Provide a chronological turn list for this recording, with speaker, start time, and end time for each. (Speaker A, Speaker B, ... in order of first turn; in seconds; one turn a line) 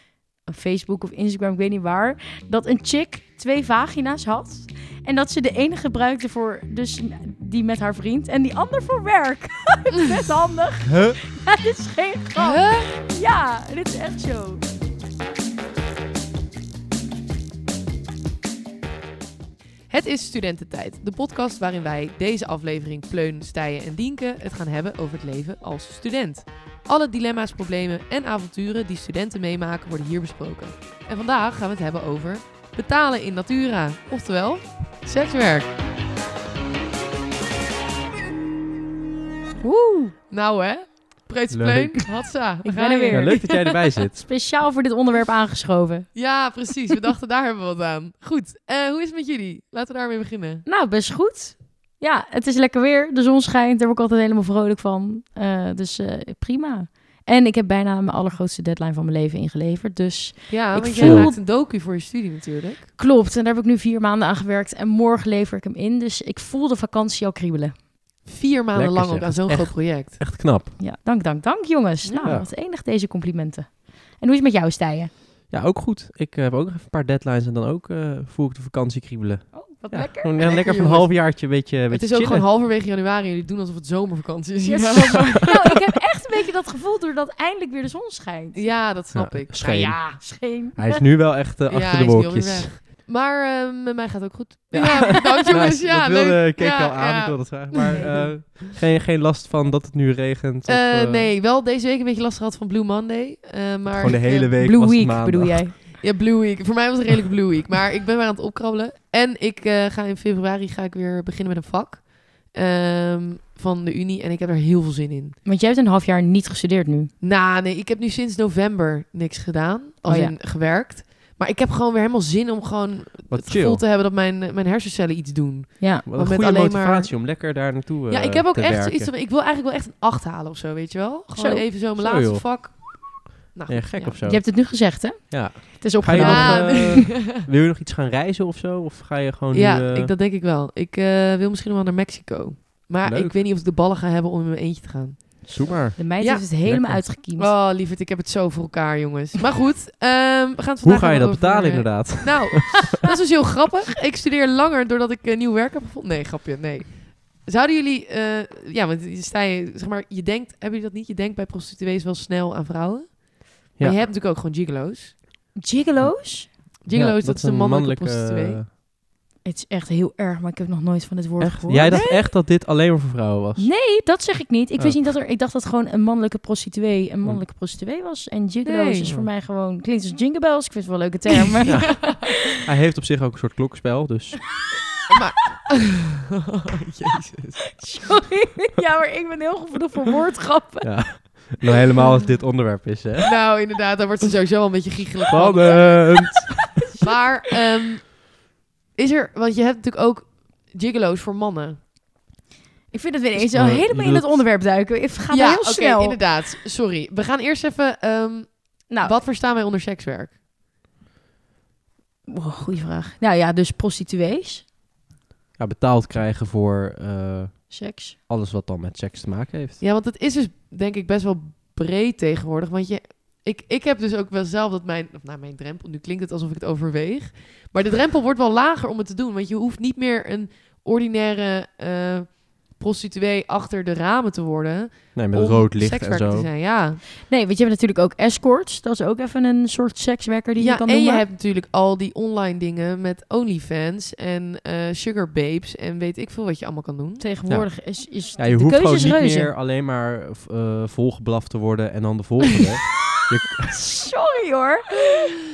Speaker A: 0.5-14.6
Speaker B: 10.9-11.2
Speaker C: 12.3-12.9
Speaker C: 19.9-35.7
Speaker A: 39.6-40.1
Speaker C: 40.3-43.8
Speaker B: 41.5-42.1
Speaker A: 42.6-43.6
Speaker B: 43.1-44.2
Speaker A: 44.1-46.1
Speaker C: 46.1-50.6
Speaker A: 50.6-61.4
Speaker C: 60.5-62.9
Speaker B: 61.0-61.3
Speaker A: 63.0-67.8
Speaker C: 68.2-70.2
Speaker B: 68.7-70.7
Speaker A: 70.8-75.1
Speaker C: 72.0-72.4
Speaker B: 72.2-72.5
Speaker B: 75.5-82.5
Speaker A: 79.5-80.4
Speaker C: 80.4-85.6
Speaker A: 84.6-88.8
Speaker C: 88.5-90.2
Speaker B: 89.1-90.2
Speaker A: 90.0-91.0
Speaker B: 90.7-92.7
Speaker C: 91.7-98.5
Speaker B: 94.7-101.3
Speaker A: 94.7-95.6
Speaker A: 97.9-98.3
Speaker C: 100.7-104.5
Speaker B: 103.9-105.7
Speaker A: 104.2-105.8
Speaker C: 105.9-115.4
Speaker A: 115.4-117.1
Speaker C: 117.2-127.3
Speaker A: 120.0-120.3
Speaker B: 123.3-123.8
Speaker A: 125.8-126.0
Speaker B: 126.0-129.1
Speaker C: 128.1-134.2
Speaker A: 131.3-131.7
Speaker B: 131.9-133.1
Speaker B: 133.7-134.6
Speaker A: 134.2-136.9
Speaker B: 135.3-140.1
Speaker C: 136.1-137.4
Speaker C: 139.5-146.4
Speaker B: 143.0-143.3
Speaker B: 145.5-147.0
Speaker A: 145.9-147.5
Speaker C: 147.3-165.2
Speaker B: 150.8-152.9
Speaker A: 165.6-166.5
Speaker B: 166.0-168.7
Speaker C: 166.8-168.6
Speaker A: 169.4-172.0
Speaker B: 171.4-173.7
Speaker C: 171.9-172.2
Speaker A: 173.6-182.2
Speaker B: 174.8-175.1
Speaker C: 178.6-179.1
Speaker B: 181.7-184.5
Speaker C: 181.7-182.3
Speaker C: 185.1-187.7
Speaker A: 187.8-191.5
Speaker B: 190.8-193.4
Speaker C: 193.2-196.3
Speaker B: 195.3-196.7
Speaker A: 195.6-196.2
Speaker C: 197.0-198.4
Speaker C: 198.9-201.8
Speaker A: 202.9-206.2
Speaker B: 203.3-204.4
Speaker C: 205.3-210.4
Speaker A: 208.9-209.2
Speaker A: 212.3-214.7
Speaker B: 215.6-219.8
Speaker A: 217.7-218.2
Speaker C: 219.8-237.0
Speaker B: 235.1-236.5
Speaker A: 237.3-241.2
Speaker C: 240.6-247.2
Speaker A: 247.2-249.5
Speaker B: 247.5-253.7
Speaker A: 253.7-255.1